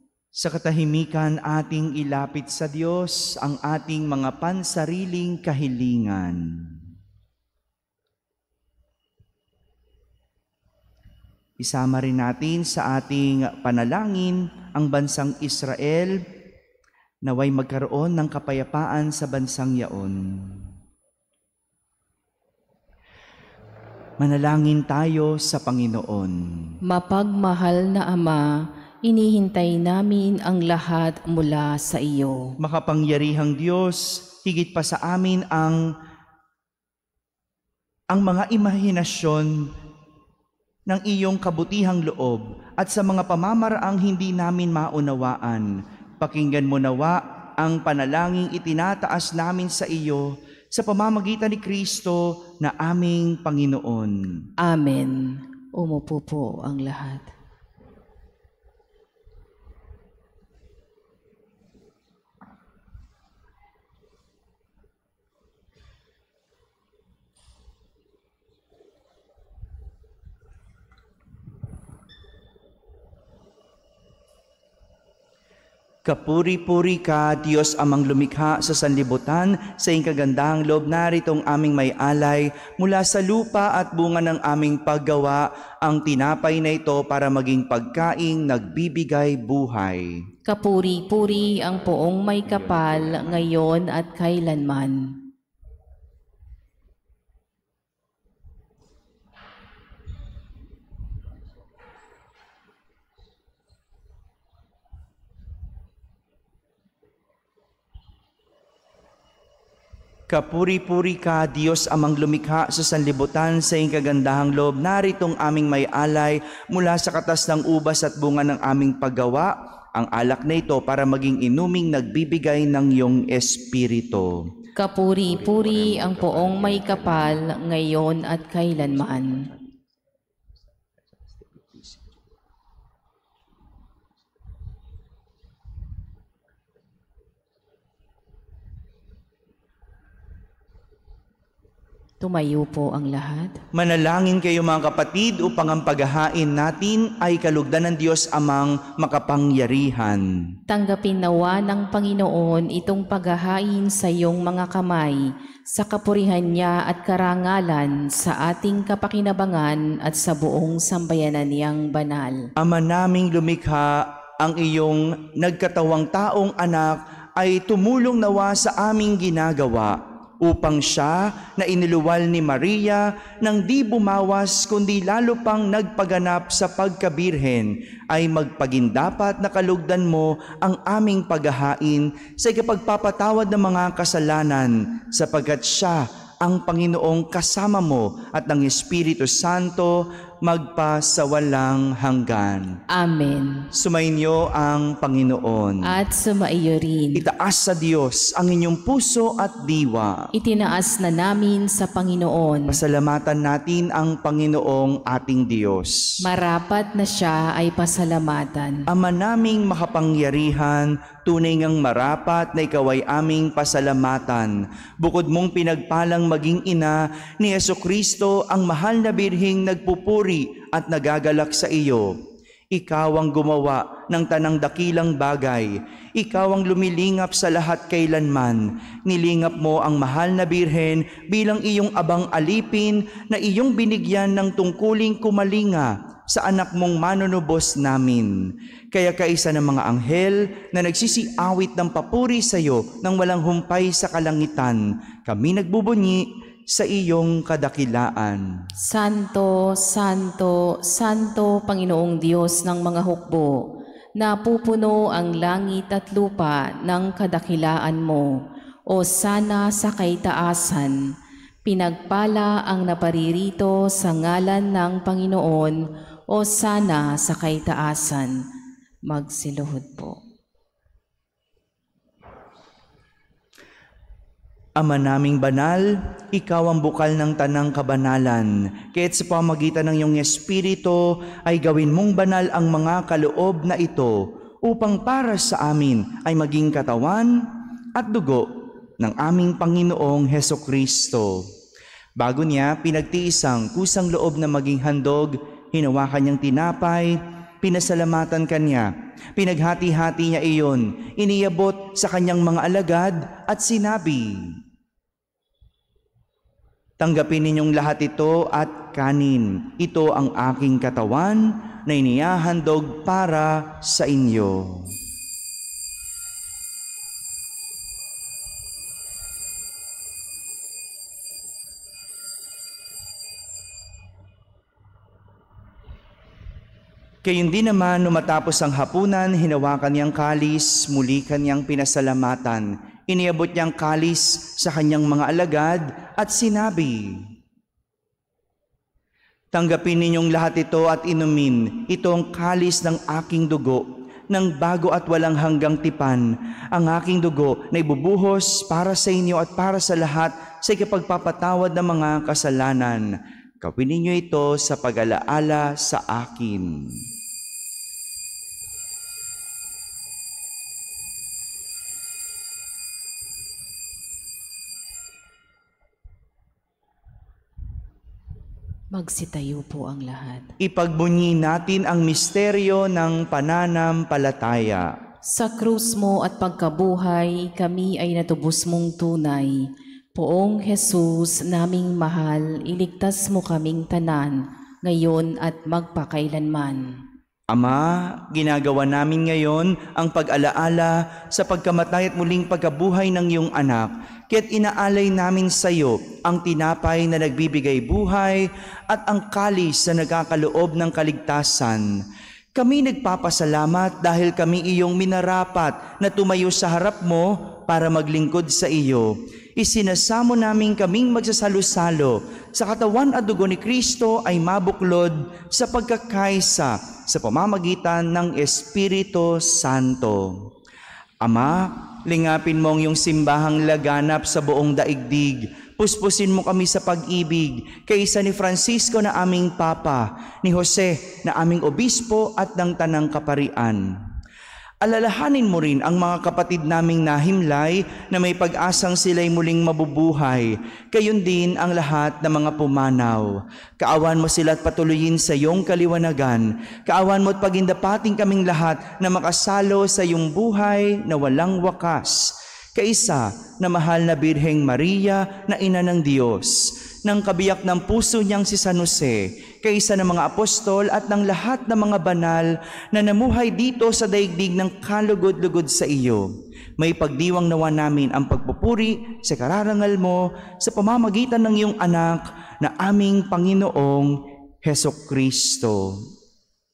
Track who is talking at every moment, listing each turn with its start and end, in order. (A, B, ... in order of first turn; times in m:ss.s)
0:00.4-0:06.8 A
0:11.6-0:16.2 A
0:17.2-0:20.7 A
0:24.2-0:26.8 A
0:26.9-0:28.4 B
0:29.0-0:32.4 B
0:32.6-0:35.8 A
0:38.1-0:39.7 A
0:40.9-0:54.4 A
0:54.6-0:57.3 B
1:16.0-1:30.2 A
1:30.4-1:35.1 B
1:32.6-1:33.4 A
1:50.3-2:04.5 A
2:04.8-2:09.5 B
2:05.3-2:07.4 A
2:08.8-2:09.8 A
2:11.0-2:12.0 A
2:22.2-2:23.6 B
2:23.7-2:30.4 A
2:30.7-2:42.5 B
2:42.6-3:12.8 A
3:12.9-3:13.7 B
3:13.7-3:16.0 A
3:15.8-3:17.2 B
3:17.1-3:20.3 A
3:20.4-3:22.8 B
3:22.7-3:26.2 A
3:26.2-3:28.8 B
3:28.9-3:42.2 A
3:42.7-4:08.5 A
4:08.8-4:21.0 B
4:21.6-4:25.8 B
4:26.3-4:28.4 B
4:29.1-4:30.2 B
4:34.8-4:51.5 A
4:52.2-5:04.6 A
5:07.0-5:15.0 A
5:27.2-5:37.2 A
5:39.5-5:57.0 A
6:08.9-6:10.5 B
6:10.6-6:14.9 A
6:15.3-6:27.0 B
6:27.5-6:42.0 A
6:42.5-7:00.5 A
7:01.2-7:13.9 A
7:14.8-7:56.0 A